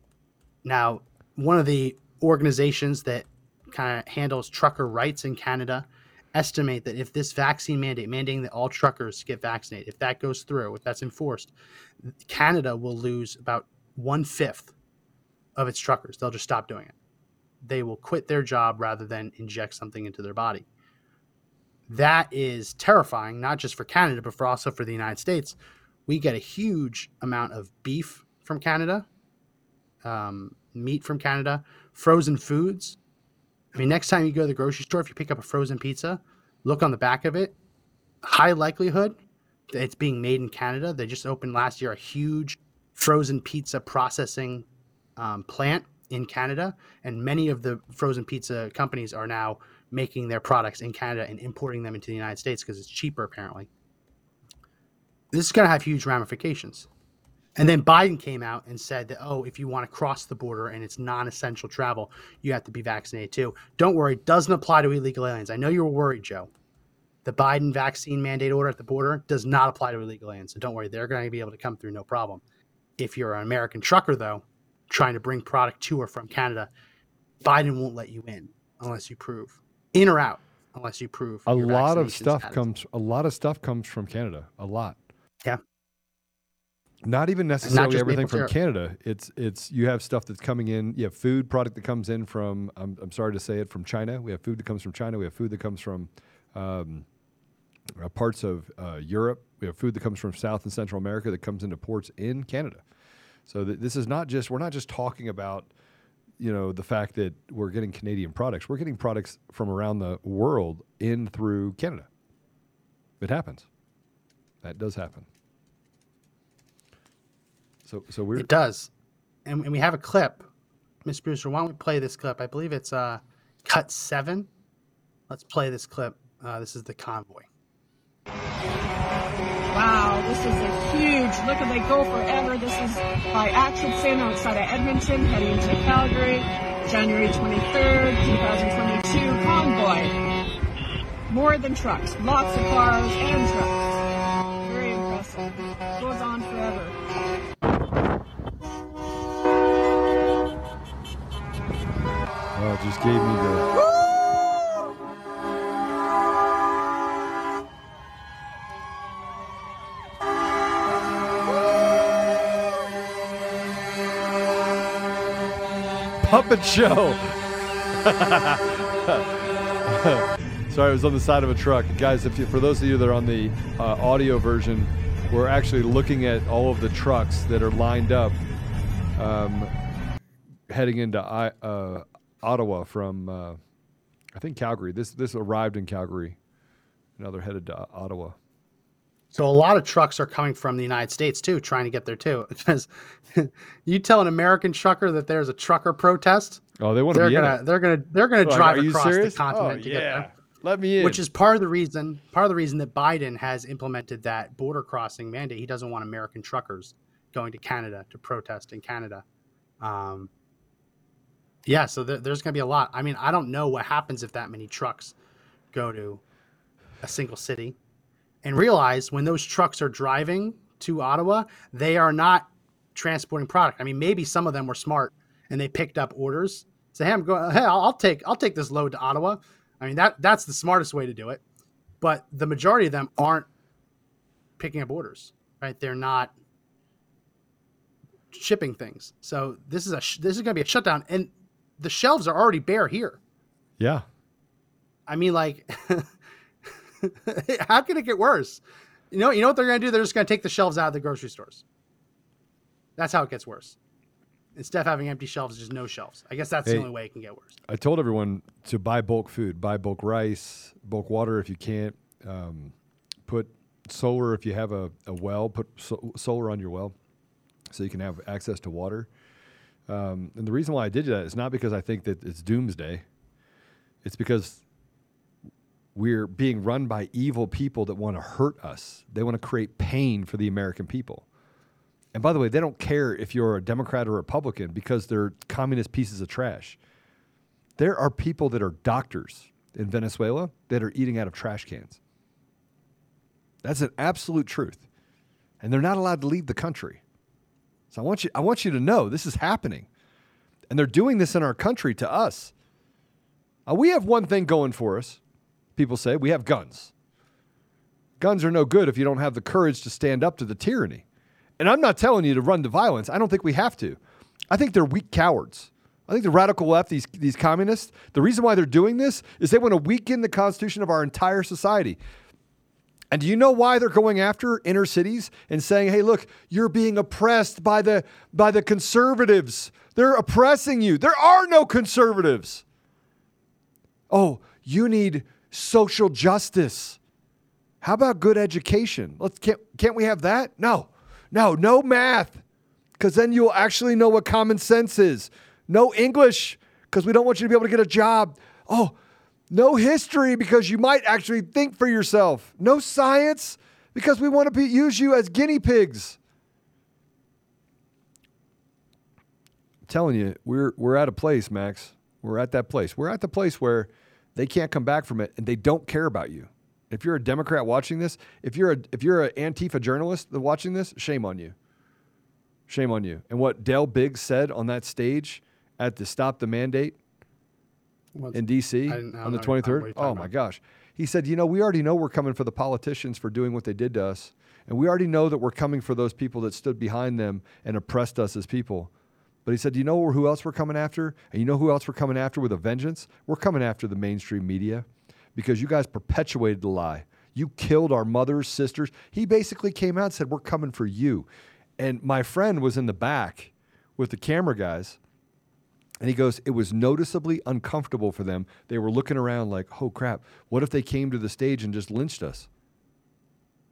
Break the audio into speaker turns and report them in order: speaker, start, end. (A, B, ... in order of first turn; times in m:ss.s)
0:00.6-0:14.7 A
0:15.6-0:16.9 A
0:17.6-0:20.7 A
0:21.9-0:29.1 A
0:30.0-0:33.0 A
0:33.7-0:37.6 A
0:38.2-0:39.2 A
0:39.7-0:44.7 A
0:45.2-0:53.7 A
0:55.3-0:56.9 A
0:57.6-1:06.5 A
1:07.2-1:12.4 A
1:13.0-1:16.7 A
1:17.4-1:22.7 A
1:21.5-1:25.0 B
1:27.0-1:37.1 B
1:27.6-1:28.5 A
1:38.0-1:42.8 B
1:43.5-1:45.7 B
1:46.4-1:52.1 B
1:53.2-1:53.7 B
1:54.6-1:55.3 B
1:57.9-1:58.5 B
1:58.4-1:58.9 A
1:59.5-2:00.5 A
2:01.0-2:04.5 A
2:05.3-2:07.5 A
2:09.7-2:20.1 C
2:21.3-2:23.9 C
2:24.6-2:27.0 C
2:32.6-2:33.7 B
2:46.2-2:58.4 B
2:59.2-2:59.7 B
3:00.7-3:03.6 B
3:04.4-3:06.4 B
3:07.2-3:08.4 B
3:09.3-3:16.6 A
3:16.8-3:17.6 B
3:17.1-3:20.3 A
3:18.4-3:21.2 B
3:21.0-3:29.2 A
3:29.8-3:30.3 A
3:31.7-3:35.2 A
3:35.7-3:36.2 A
3:37.0-3:37.8 A
3:38.4-3:51.4 A
3:52.0-3:53.5 A
3:54.6-3:56.3 A
3:58.3-4:03.2 A
4:03.8-4:04.0 B
4:05.1-4:06.1 A
4:07.0-4:11.6 A
4:13.0-4:13.8 A
4:14.6-4:17.6 A
4:17.7-4:22.7 B
4:23.3-4:27.0 B
4:27.7-4:29.1 B
4:29.9-4:33.1 B
4:34.0-4:34.6 B
4:36.0-4:41.2 B
4:42.1-4:46.8 B
4:47.8-4:52.0 B
4:53.6-4:54.8 B
4:55.6-4:57.0 B
4:57.9-4:59.9 B
5:00.7-5:02.5 B
5:03.7-5:05.2 B
5:05.8-5:06.9 B
5:08.2-5:11.0 B
5:11.6-5:14.0 B
5:14.5-5:22.0 B
5:23.1-5:32.6 B
5:34.1-5:37.0 B
5:37.8-5:42.4 B
5:43.0-5:49.0 B
5:49.5-5:56.2 B
5:59.9-6:11.6 B
6:12.7-6:17.0 B
6:18.2-6:20.3 A
6:18.3-6:28.9 B
6:29.4-6:41.3 B
6:41.8-6:45.0 B
6:46.0-6:52.5 B